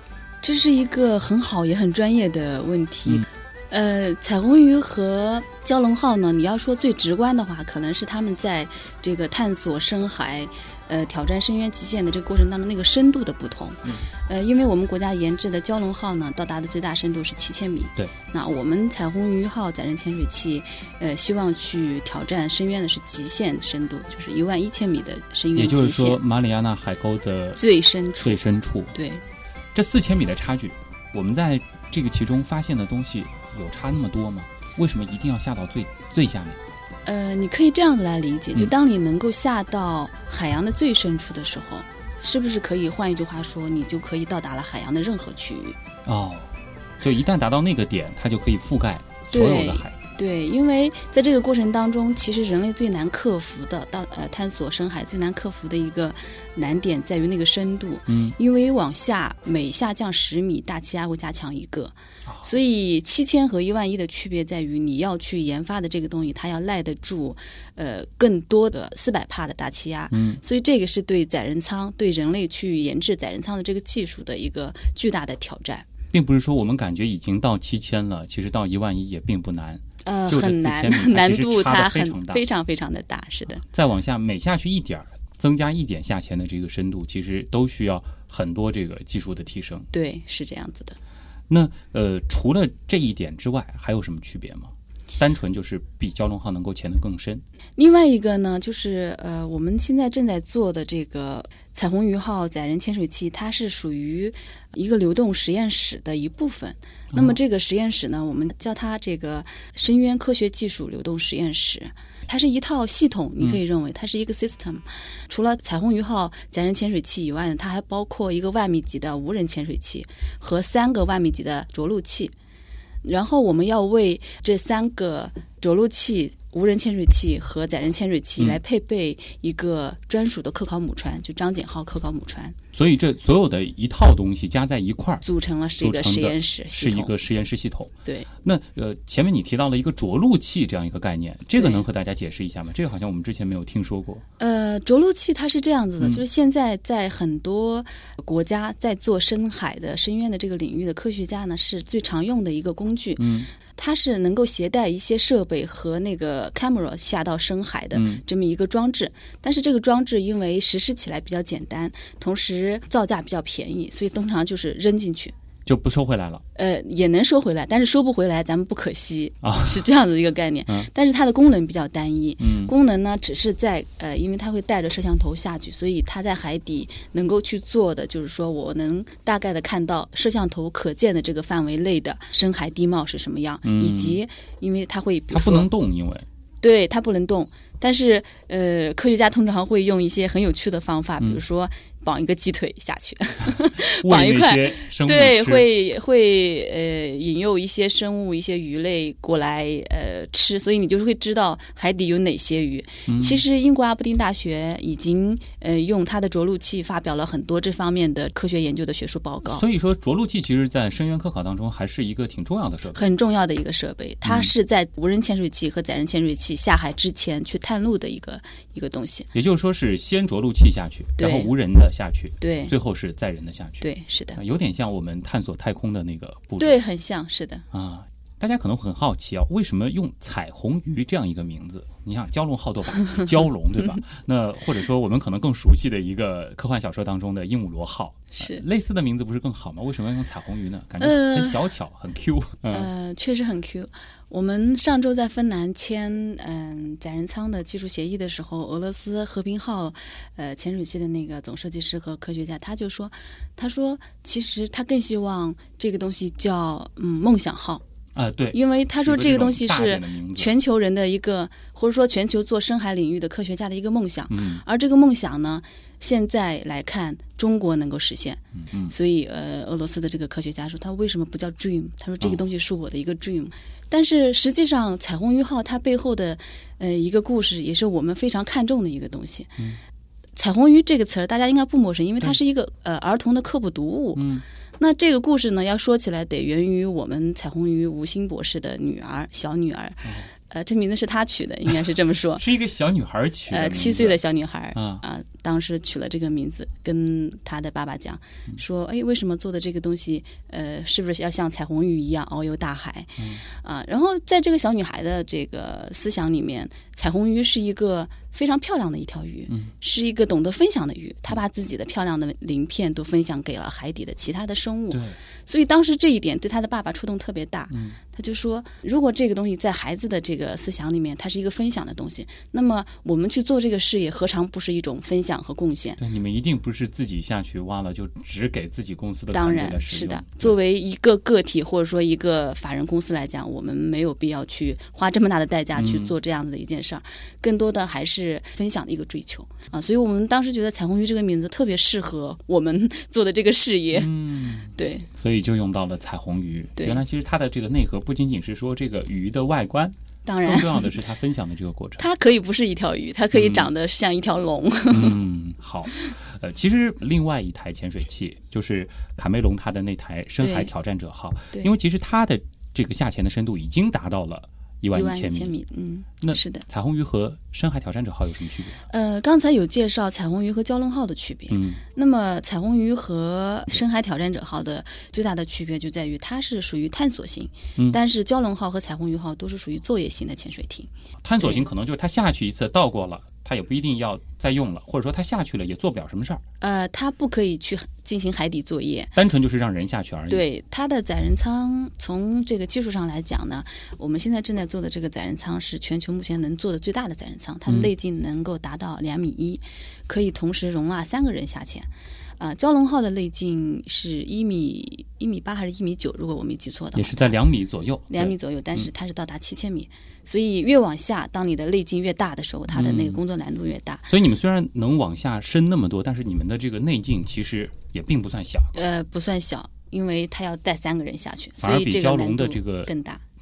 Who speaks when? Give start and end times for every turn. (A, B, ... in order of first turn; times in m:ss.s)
0:00.4-0:26.2 A
0:25.6-0:27.6 B
0:27.6-0:29.2 A
0:28.2-0:28.9 B
0:29.7-0:36.6 B
0:37.1-0:45.8 A
0:46.0-0:50.0 B
0:49.3-1:15.9 A
0:58.1-0:58.4 B
1:10.1-1:10.4 B
1:16.1-1:22.4 B
1:20.0-1:23.6 A
1:23.6-1:29.9 B
1:29.9-1:31.0 A
1:31.5-1:37.4 B
1:37.8-2:02.3 A
1:47.1-1:47.4 B
2:03.0-2:12.6 A
2:12.7-2:15.2 B
2:15.2-2:17.2 A
2:15.8-2:24.2 B
2:21.6-2:21.8 A
2:24.4-2:45.3 A
2:33.2-2:33.5 B
2:37.9-2:38.2 B
2:45.7-2:46.4 B
2:46.6-3:05.7 A
2:49.4-2:49.9 B
2:52.4-2:52.7 B
3:03.6-3:04.2 B
3:05.3-3:06.3 B
3:06.6-3:29.6 A
3:13.6-3:15.7 B
3:23.1-3:23.4 B
3:29.4-3:33.0 B
3:33.0-3:39.3 A
3:34.2-3:34.5 B
3:39.3-3:46.8 B
3:41.2-3:41.5 A
3:42.4-3:42.7 A
3:43.8-3:44.4 A
3:46.6-3:47.6 A
3:47.7-4:02.9 B
3:58.3-3:58.6 A
4:01.0-4:01.7 A
4:02.7-4:17.8 A
4:18.2-4:20.5 B
4:18.5-4:39.6 A
4:24.3-4:24.6 B
4:28.6-4:28.9 B
4:40.4-4:44.2 A
4:44.2-4:44.4 B
4:44.8-4:52.4 A
4:50.0-4:50.3 B
4:52.4-4:54.2 B
4:53.5-5:26.0 A
4:54.7-4:55.0 B
5:14.9-5:15.2 B
5:17.7-5:18.0 B
5:26.0-5:30.5 B
5:29.3-5:44.1 A
5:35.8-5:36.1 B
5:43.9-5:52.1 B
5:44.7-5:45.1 A
5:50.2-5:50.9 A
5:52.0-5:55.2 A
5:53.3-5:53.7 B
5:54.9-6:05.6 B
6:00.4-6:00.7 A
6:04.9-6:06.6 A
6:06.2-6:08.8 B
6:08.9-6:21.7 A
6:11.5-6:11.8 B
6:21.2-6:26.4 B
6:26.6-6:29.2 A
6:29.2-6:30.5 B
6:30.3-6:47.4 A
6:47.0-6:48.9 B
6:48.1-6:54.1 A
6:52.7-6:53.2 B
6:54.1-6:58.8 B
6:58.7-7:03.2 A
7:01.6-7:02.9 B